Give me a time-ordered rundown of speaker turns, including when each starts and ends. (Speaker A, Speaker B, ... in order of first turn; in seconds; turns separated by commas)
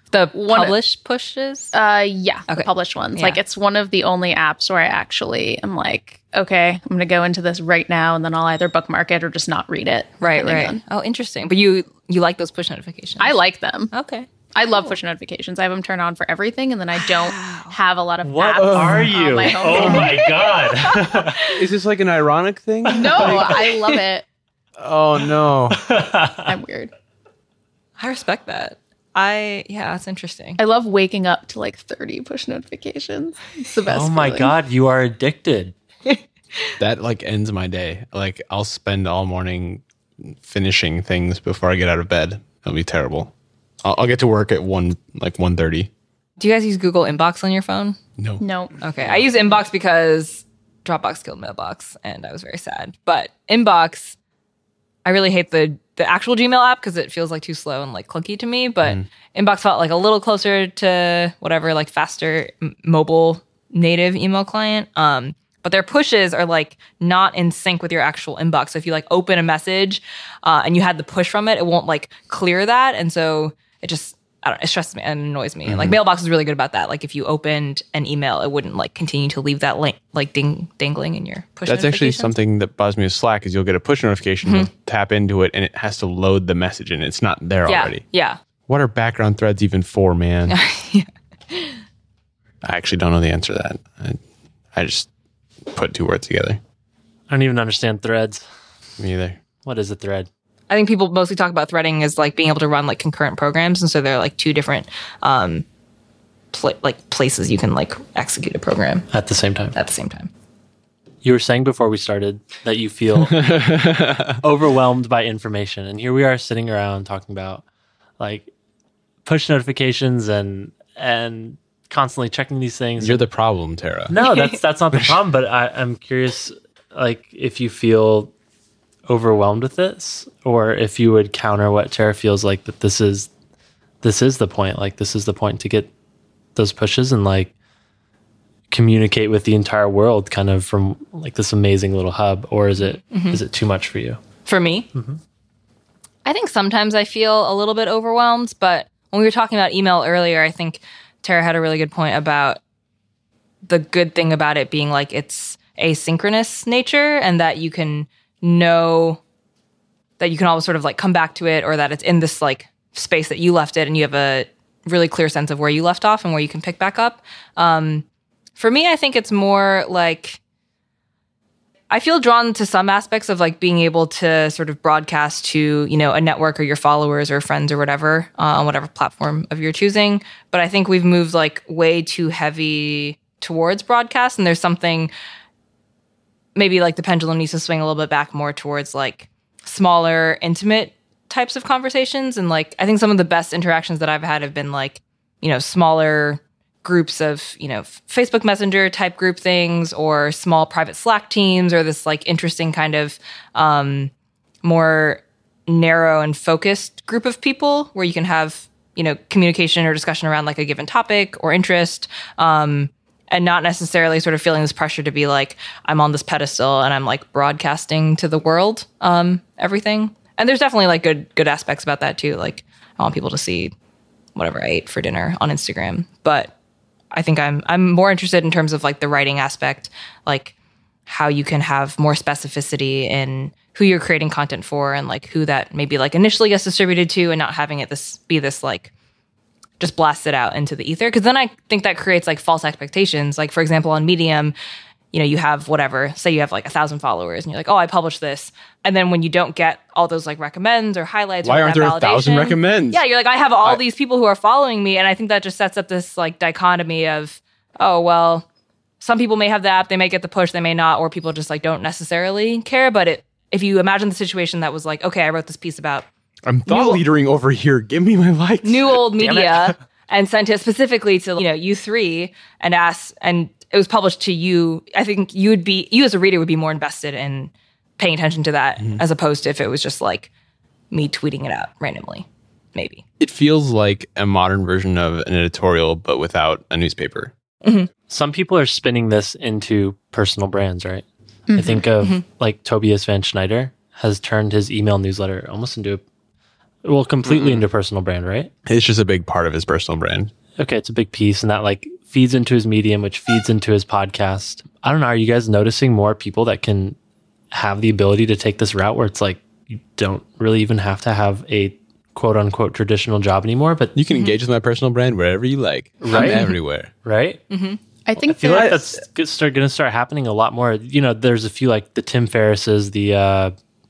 Speaker A: 0.1-1.7, Speaker B: 0.3-0.8, Speaker B: 1.7-10.8, Speaker A: 2.5-3.4, Speaker A: 10.2-13.3, Speaker B: 13.2-13.9, Speaker A: 13.9-14.3, Speaker B: 14.5-21.3, Speaker A: 17.0-17.7, Speaker C: 18.2-21.4, Speaker D: 18.6-19.1, Speaker D: 19.7-20.0, Speaker D: 21.5-23.7, Speaker B: 22.9-24.2, Speaker D: 24.8-25.8, Speaker C: 25.7-26.5, Speaker B: 26.4-26.9, Speaker A: 28.0-30.6, Speaker B: 30.6-34.5, Speaker C: 33.9-35.7, Speaker A: 36.0-36.7, Speaker D: 36.8-45.9, Speaker A: 46.4-48.0, Speaker D: 48.2-48.4, Speaker B: 48.4-48.7, Speaker A: 48.8-54.1, Speaker A: 55.0-82.3, Speaker D: 75.7-76.0, Speaker D: 81.7-88.0, Speaker A: 87.7-88.4, Speaker D: 88.7-90.6, Speaker A: 90.5-91.8, Speaker D: 92.6-94.2, Speaker D: 94.7-95.1, Speaker D: 95.7-96.6, Speaker C: 97.3-98.4, Speaker D: 99.0-99.4, Speaker C: 99.6-100.3, Speaker A: 100.7-105.6, Speaker A: 106.5-109.1, Speaker C: 109.1-109.7, Speaker A: 109.7-110.3, Speaker C: 111.2-113.5, Speaker D: 113.2-114.4, Speaker C: 114.4-117.6, Speaker C: 118.2-118.5, Speaker C: 119.2-123.2, Speaker D: 123.0-124.2, Speaker C: 124.1-128.3, Speaker A: 124.2-124.6, Speaker D: 124.9-125.2, Speaker C: 129.1-133.3, Speaker C: 134.0-135.9, Speaker C: 136.5-137.5, Speaker C: 138.7-144.2, Speaker A: 143.1-143.4, Speaker A: 144.4-144.9, Speaker C: 144.9-145.2, Speaker A: 146.2-152.6, Speaker A: 153.6-159.2, Speaker A: 160.2-168.0, Speaker A: 168.6-170.4, Speaker A: 171.9-185.1, Speaker A: 186.5-204.1, Speaker A: 204.6-223.7, Speaker A: 224.3-226.5, Speaker A: 227.1-230.5, Speaker A: 231.1-238.9, Speaker A: 239.8-244.5, Speaker A: 245.1-258.4, Speaker D: 251.4-253.0, Speaker A: 259.0-266.1, Speaker D: 266.4-269.0, Speaker A: 266.7-267.0, Speaker A: 268.6-280.3, Speaker C: 269.2-269.8, Speaker A: 280.9-283.0, Speaker D: 283.2-287.3, Speaker A: 287.6-287.9, Speaker C: 288.1-291.0, Speaker B: 291.5-291.9, Speaker C: 291.6-296.0, Speaker C: 296.8-298.5, Speaker D: 297.2-297.6, Speaker D: 298.7-300.3, Speaker C: 300.6-307.0, Speaker C: 307.5-313.9, Speaker D: 313.9-316.9, Speaker C: 316.0-316.5, Speaker C: 317.0-317.4, Speaker A: 317.5-317.8, Speaker B: 318.1-318.8, Speaker C: 318.2-323.5, Speaker D: 318.4-318.8